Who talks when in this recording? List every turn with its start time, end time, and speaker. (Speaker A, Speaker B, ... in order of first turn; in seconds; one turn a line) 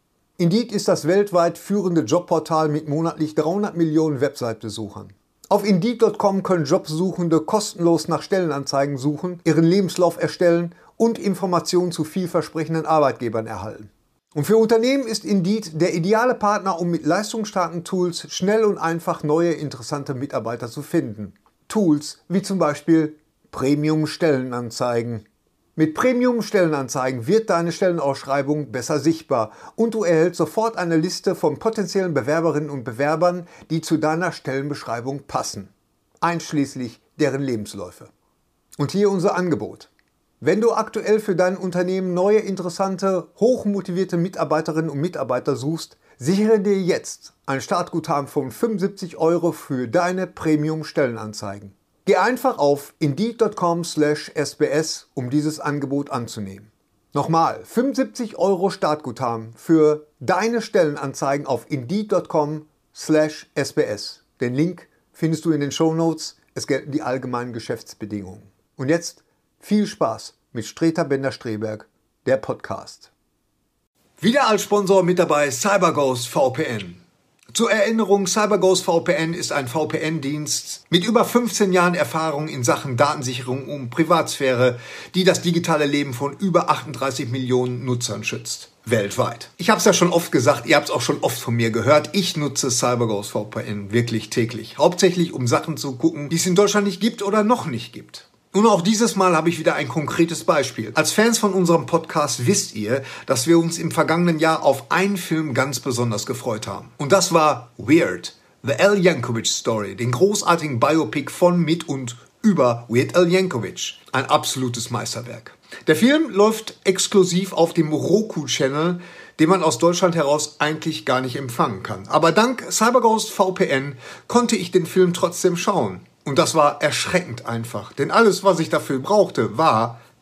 Speaker A: 0.4-25.2
Speaker A: 25.8-35.7
Speaker A: 36.2-38.1
Speaker A: 38.8-39.9
Speaker A: 40.4-73.1
Speaker A: 74.2-77.0
Speaker A: 77.5-130.0